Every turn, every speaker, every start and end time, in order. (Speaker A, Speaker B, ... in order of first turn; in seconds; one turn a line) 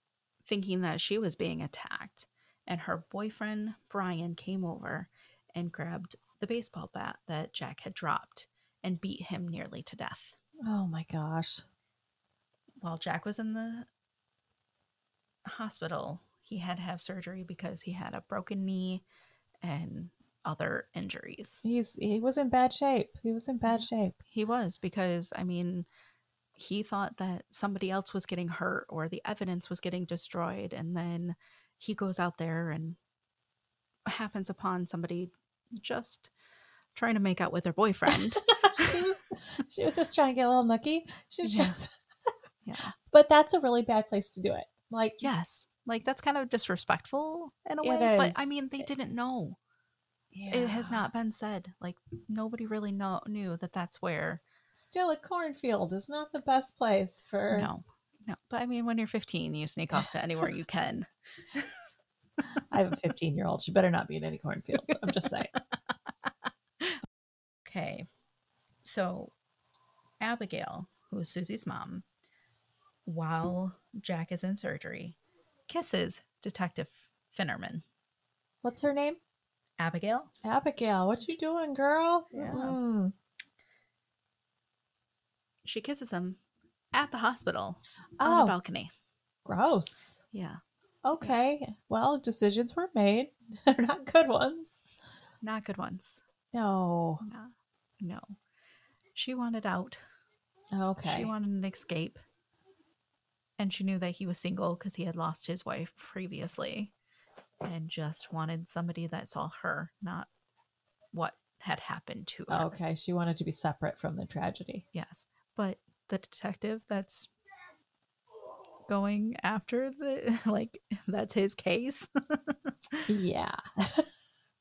Speaker A: 0.5-10.4
Speaker B: 10.7-11.6
Speaker A: 12.8-13.9
Speaker A: 15.4-19.0
Speaker A: 19.6-21.6
Speaker B: 21.6-24.2
Speaker A: 23.7-25.9
Speaker A: 26.6-33.0
Speaker A: 34.1-36.3
Speaker A: 36.9-39.0
Speaker B: 38.1-41.9
Speaker A: 41.4-41.8
Speaker A: 42.7-42.9
Speaker B: 43.0-45.3
Speaker A: 45.2-49.6
Speaker B: 47.8-48.9
Speaker B: 50.3-51.0
Speaker A: 50.5-54.4
Speaker B: 54.7-57.7
Speaker A: 57.5-61.7
Speaker B: 62.7-65.5
Speaker A: 67.7-68.1
Speaker A: 68.8-69.3
Speaker A: 70.2-72.0
Speaker A: 73.0-75.2
Speaker A: 75.7-77.8
Speaker B: 78.6-79.2
Speaker A: 79.8-80.3
Speaker B: 80.4-83.1
Speaker A: 82.3-82.8
Speaker A: 85.7-86.4
Speaker A: 86.9-88.9
Speaker B: 88.2-88.5
Speaker B: 89.5-90.2
Speaker A: 90.3-90.6
Speaker B: 91.0-94.8
Speaker A: 95.4-96.2
Speaker B: 96.5-97.2
Speaker A: 97.2-98.4
Speaker A: 99.2-100.0
Speaker B: 100.7-101.3
Speaker A: 101.0-102.2
Speaker A: 103.6-106.9
Speaker A: 107.6-110.3
Speaker A: 111.1-112.7
Speaker B: 112.5-114.8
Speaker A: 114.9-117.3
Speaker A: 118.9-123.1
Speaker B: 123.1-124.1